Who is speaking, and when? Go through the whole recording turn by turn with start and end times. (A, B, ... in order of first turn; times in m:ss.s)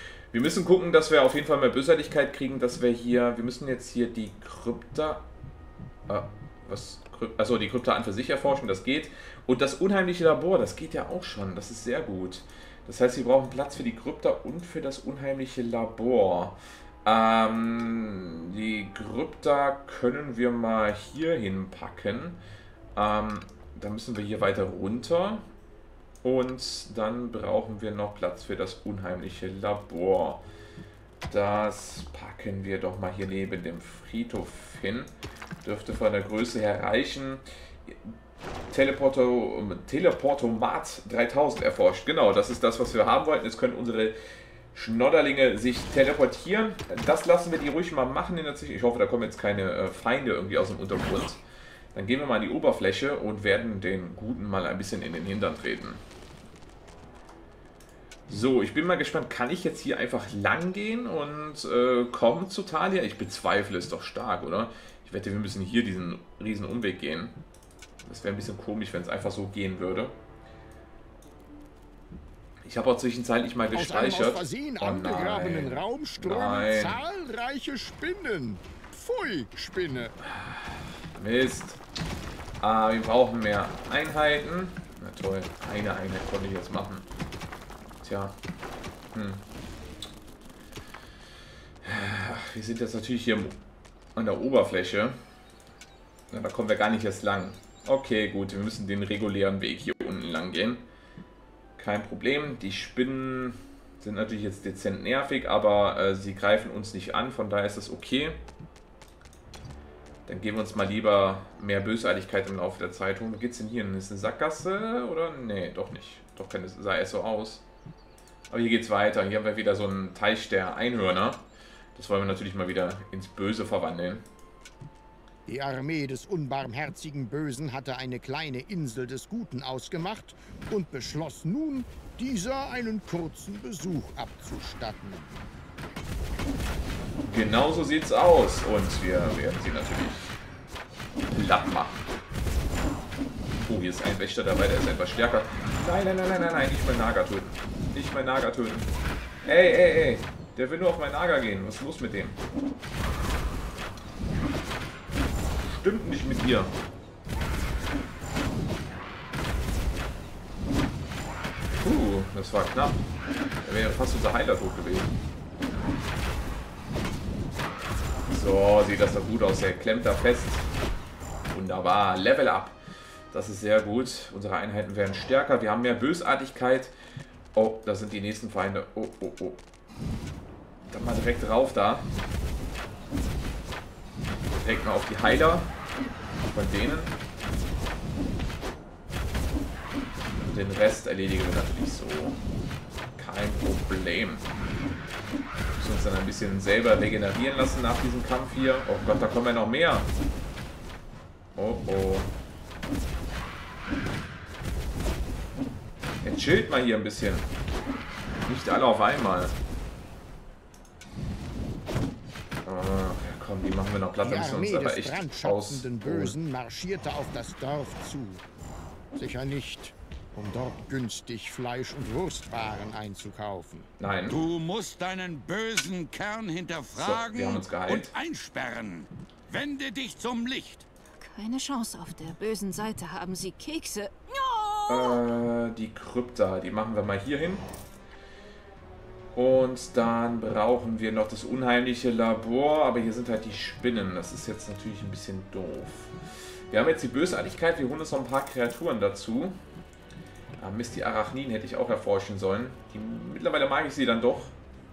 0:00.3-0:05.3 A
0:06.1-0:22.4 A
0:22.9-0:25.4 A
0:26.2-0:30.4 A
0:31.3-0:35.1 A
0:35.6-0:38.1 A
0:38.7-0:44.2 A
0:44.7-0:51.4 A
0:51.9-0:56.0 A
0:58.3-1:07.4 A
1:08.0-1:10.2 A
1:12.6-1:17.0 A
1:13.7-1:20.1 B
1:20.3-1:21.8 A
1:22.6-1:27.1 A
1:28.0-1:28.4 A
1:29.1-1:29.4 A
1:31.8-1:33.6 A
1:34.1-1:35.2 A
1:36.3-1:40.8 A
1:41.8-1:48.4 A
1:50.2-1:57.6 A
1:58.5-2:04.2 A
2:05.4-2:15.4 B
2:17.3-2:20.4 A
2:21.3-2:22.0 A
2:23.6-2:28.9 A
2:29.4-2:32.4 A
2:35.6-2:36.7 A
2:41.7-2:43.0 A
2:43.6-2:45.1 A
2:48.3-2:50.7 A
2:51.5-2:52.8 A
2:53.3-2:56.9 A
2:57.5-2:59.6 A
3:00.9-3:02.1 A
3:04.6-3:05.7 A
3:06.5-3:07.2 A
3:10.4-3:12.4 A
3:13.2-3:14.5 A
3:15.8-3:20.1 A
3:21.6-3:22.3 A
3:26.2-3:27.5 A
3:28.4-3:29.5 A
3:32.6-3:36.4 A
3:34.2-3:38.4 B
3:39.1-3:43.9 B
3:44.0-3:44.4 A
3:44.3-3:50.9 C
3:46.9-3:48.1 A
3:51.2-3:55.2 D
3:54.9-3:57.7 A
3:59.3-4:06.1 A
4:06.7-4:09.6 A
4:10.6-4:14.6 A